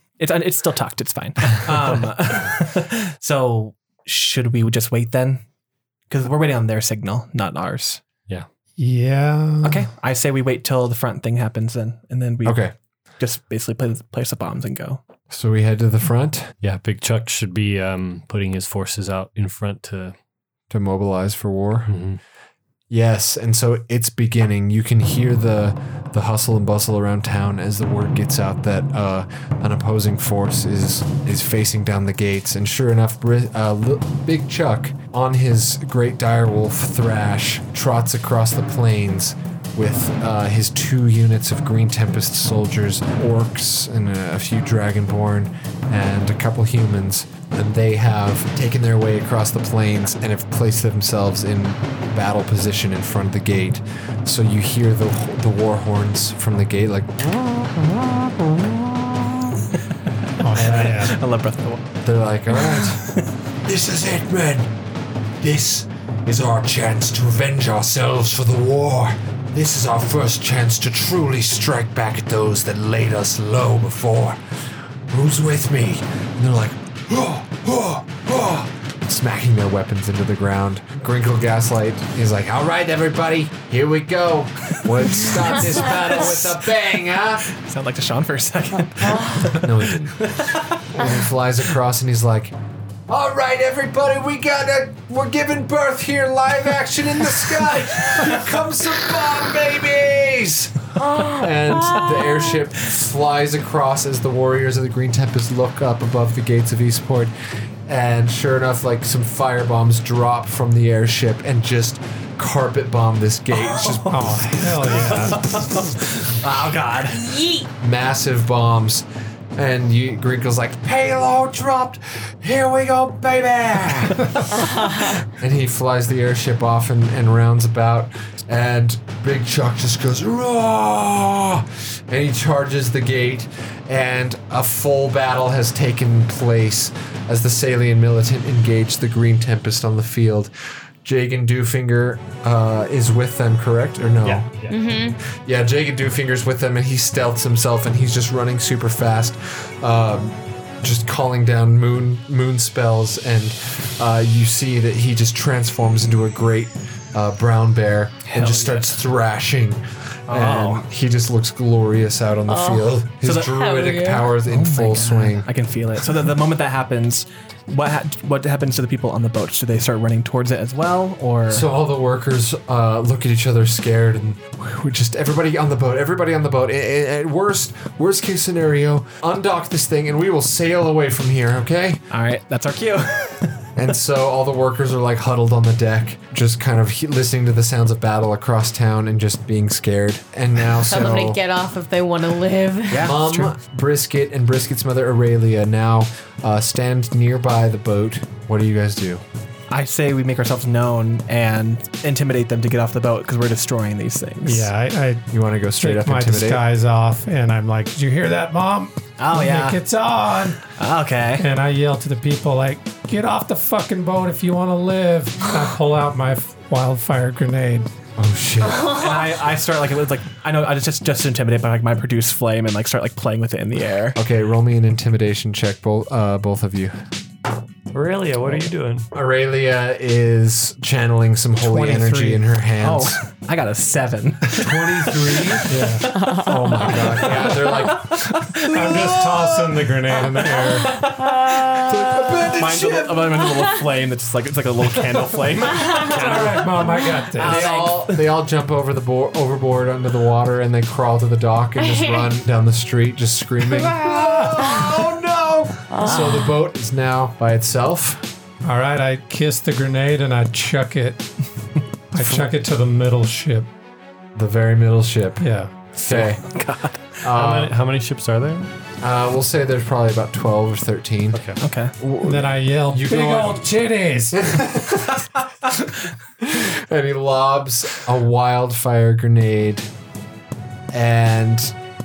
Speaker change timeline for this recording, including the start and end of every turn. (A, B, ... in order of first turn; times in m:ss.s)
0:00.2-0:05.4 A
0:06.1-0:08.0 A
0:08.8-0:09.8 B
0:09.6-0:12.6 A
0:12.4-0:12.7 C
0:13.2-0:15.0 A
0:15.3-0:16.5 C
0:16.6-0:20.1 D
0:20.7-0:21.9 C
0:21.9-0:22.2 D
0:22.9-0:57.3 C
0:57.3-0:59.9 A
1:00.4-1:01.2 B
1:00.5-1:01.8 A
1:00.6-1:01.0 C
1:02.0-1:03.1 C
1:02.8-1:03.3 A
1:03.6-1:04.7 C
1:05.4-1:14.4 C
1:15.1-1:27.5 C
1:25.1-1:26.7 A
1:27.5-1:31.1 A
1:29.0-1:29.5 E
1:29.5-1:30.3 C
1:30.9-1:32.5 C
1:33.1-1:47.3 C
1:37.4-1:38.4 A
1:41.0-1:42.6 E
1:47.9-1:55.4 C
1:53.5-1:57.3 A
1:54.1-1:55.8 B
1:57.1-1:57.7 E
1:57.8-2:04.4 C
2:04.5-2:05.2 E
2:05.2-2:20.5 C
2:21.0-2:24.5 C
2:24.2-2:24.7 D
2:24.7-2:25.2 E
2:25.2-2:45.5 C
2:38.3-2:38.9 A
2:40.3-2:40.8 A
2:42.5-2:43.0 E
2:43.2-2:43.5 A
2:43.5-2:44.3 E
2:44.4-2:51.7 A
2:51.5-3:02.0 C
3:02.1-3:03.8 A
3:03.8-3:11.4 C
3:10.9-3:13.1 E
3:12.9-3:13.6 A
3:13.0-3:19.2 C
3:19.7-3:24.7 A
3:24.4-3:25.3 B
3:25.3-3:26.6 C
3:25.8-3:30.7 B
3:29.2-3:29.8 A
3:30.8-3:31.4 A
3:31.4-3:37.9 B
3:38.2-3:38.9 C
3:38.7-3:39.2 E
3:38.9-3:44.2 A
3:44.2-3:47.1 C
3:47.9-3:49.1 D
3:49.1-3:53.2 C
3:51.6-3:52.4 B
3:52.8-3:59.3 A
3:54.5-3:55.7 C
3:55.7-3:57.6 B
3:56.1-3:56.5 E
3:56.4-3:59.8 C
3:58.6-4:01.2 B
4:00.6-4:01.8 A
4:00.9-4:01.7 E
4:01.8-4:03.4 C
4:02.4-4:08.3 A
4:05.9-4:07.7 B
4:07.4-4:18.3 C
4:11.8-4:12.3 E
4:13.8-4:14.7 B
4:15.9-4:16.5 E
4:18.6-4:21.3 B
4:22.1-4:23.7 B
4:24.3-4:26.4 C
4:25.4-4:25.9 B
4:26.2-4:27.2 A
4:27.2-4:27.7 C
4:27.3-4:28.7 D
4:29.0-4:31.4 C
4:31.3-4:31.6 D
4:31.6-4:31.9 A
4:32.0-4:33.6 C
4:32.2-4:34.4 B
4:34.3-4:35.3 C
4:36.4-4:39.9 C
4:40.9-4:41.7 C